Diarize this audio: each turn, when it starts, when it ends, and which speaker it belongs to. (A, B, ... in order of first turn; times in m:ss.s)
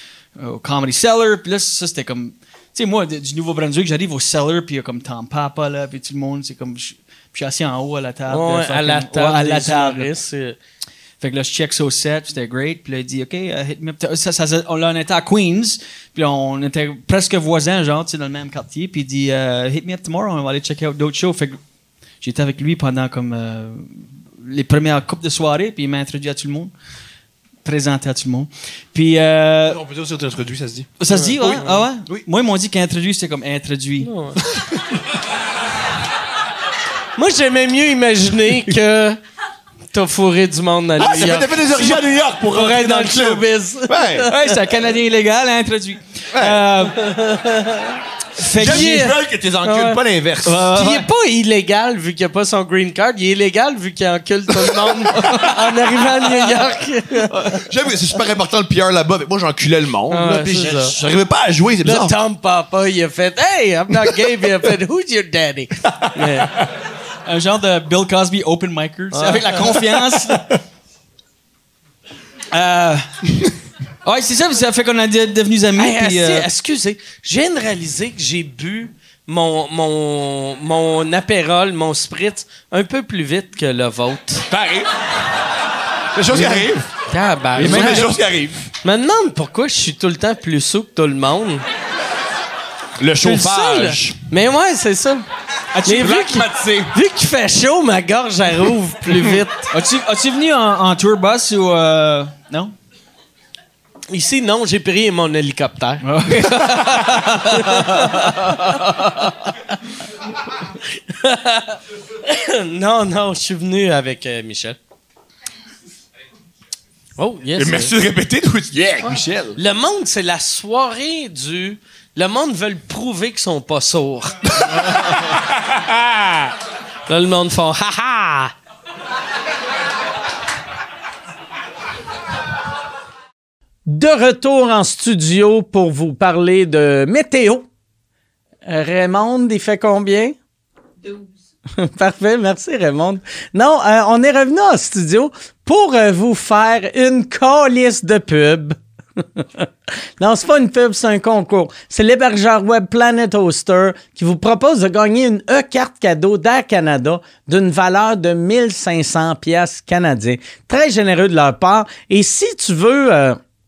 0:00.4-0:10.1 A
0:08.3-0:10.6 B
0:11.2-0:21.6 A
0:22.2-0:26.7 A
0:27.6-0:29.8 A
0:29.6-0:32.2 C
0:31.0-0:34.1 A
0:31.1-0:31.8 B
0:34.0-0:34.4 B
0:34.4-0:34.8 C
0:37.2-0:39.2 B
0:39.9-0:44.6 B
0:41.0-0:44.3 C
0:44.3-0:47.2 A
0:46.3-0:46.6 C
0:46.9-0:48.0 B
0:48.4-0:49.1 A
0:48.5-0:50.6 C
0:48.6-0:50.0 B
0:50.4-0:51.1 A
0:50.7-0:57.6 B
0:54.7-0:55.3 C
0:55.1-0:55.6 A
0:57.3-1:02.1 C
1:00.1-1:01.0 B
1:01.8-1:06.5 B
1:06.0-1:06.5 C
1:07.2-1:10.6 A
1:09.1-1:09.8 B
1:12.5-1:13.1 A
1:14.0-1:16.5 A
1:15.8-1:24.5 B
1:24.5-1:24.9 C
1:26.1-1:26.9 C
1:26.3-1:28.1 B
1:27.5-1:28.7 C
1:27.6-1:28.1 A
1:28.8-1:31.6 B
1:33.0-1:34.2 C
1:33.2-1:35.3 B
1:35.7-1:36.2 A
1:35.8-1:39.7 B
1:35.9-1:36.9 C
1:39.7-1:42.7 A
1:44.1-1:46.0 B
1:46.0-1:49.0 A
1:47.5-1:49.3 B
1:50.9-1:54.8 B
1:57.2-1:57.9 B
1:57.6-1:59.6 C
1:59.6-2:04.9 B
2:04.6-2:06.5 C
2:07.1-2:08.5 B
2:13.8-2:17.7 D
2:18.6-2:20.4 D
2:21.8-2:28.8 D
2:29.4-2:29.7 D
2:30.2-2:43.4 D